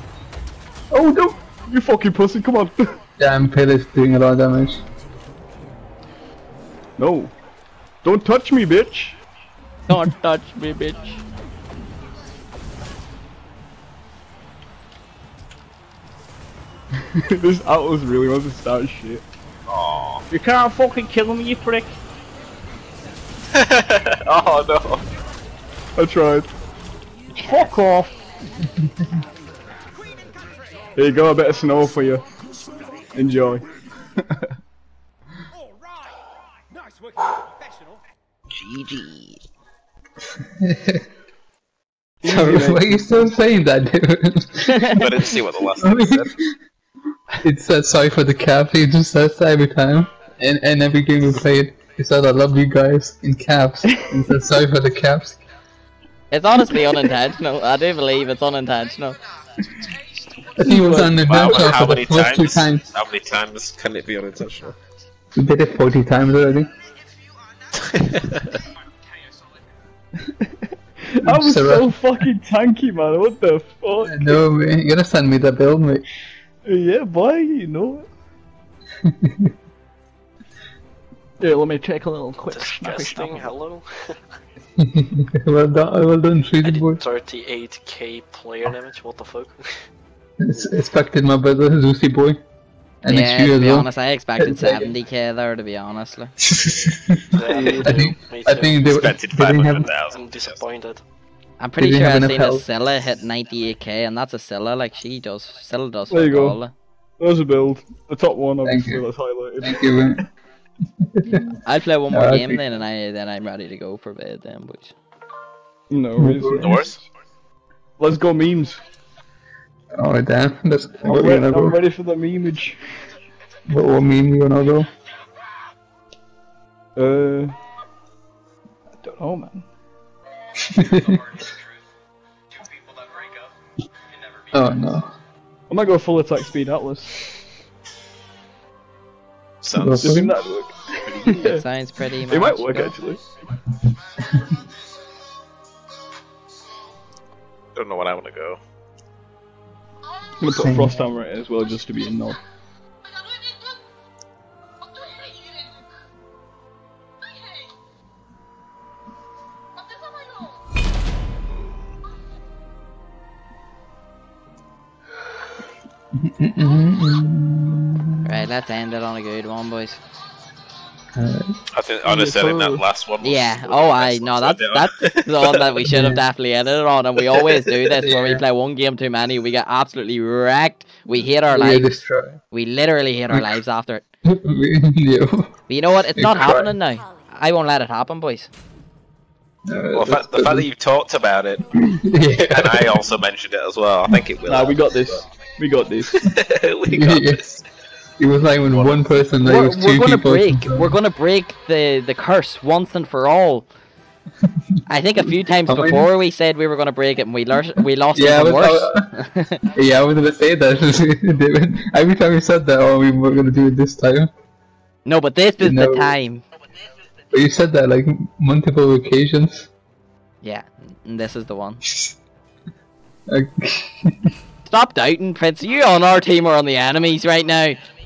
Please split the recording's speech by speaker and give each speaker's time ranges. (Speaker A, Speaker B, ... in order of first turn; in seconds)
Speaker A: 0.9-2.9, 7.0-7.3, 8.0-9.2, 17.0-19.2, 20.3-21.9, 25.9-26.5, 27.4-28.3, 30.9-32.2, 33.1-34.5, 42.2-42.9, 60.6-61.1, 70.2-74.4, 76.6-78.1, 81.4-83.5, 97.4-97.9, 106.1-106.6, 107.2-109.8, 115.9-117.0, 118.0-118.8, 121.0-122.8, 127.0-127.5, 129.0-129.7, 135.7-137.2, 140.0-141.6, 142.2-143.2, 150.4-152.4, 172.0-172.8, 194.5-196.3
Speaker B: 3.2-4.8, 40.6-41.0, 42.2-45.2, 45.8-46.5, 47.4-55.4, 60.6-62.8, 65.3-66.7, 71.2-71.9, 74.0-76.0, 79.0-79.5, 84.8-87.0, 90.4-92.4, 93.0-94.9, 96.4-99.9, 101.8-102.6, 108.6-109.0, 109.6-110.2, 111.0-111.6, 112.1-112.6, 116.2-116.7, 120.0-121.8, 123.7-124.9, 130.6-131.2, 134.5-135.1, 139.7-140.3, 150.5-150.9, 166.1-168.3, 171.1-171.6, 175.8-176.2, 178.0-178.4, 181.5-182.4, 183.3-183.6, 184.2-185.5, 186.1-186.7, 189.7-190.7, 191.7-193.0, 196.9-197.6, 198.2-200.9, 205.7-206.1, 208.1-209.1, 209.7-214.3, 215.6-216.2, 217.3-219.7, 223.3-224.3
Speaker C: 9.9-11.2, 27.3-27.7, 38.6-39.3, 44.7-45.0, 56.3-59.2, 93.1-96.4, 101.6-106.7, 111.6-114.9, 141.2-142.9, 168.2-170.0, 173.2-184.0, 185.7-188.5, 199.4-203.7, 204.9-209.6, 215.0-216.4, 220.4-221.8, 224.7-227.8
Speaker D: 19.7-20.2, 23.5-25.0, 45.0-46.3, 61.2-64.8, 67.7-68.6, 98.8-100.6, 116.6-117.0, 139.6-140.3, 141.1-141.4, 147.7-148.6, 171.7-175.7, 189.9-191.7, 192.3-195.2, 196.0-197.6, 198.7-199.2
Speaker E: 82.5-84.2, 86.6-89.7, 97.3-98.8, 100.1-101.0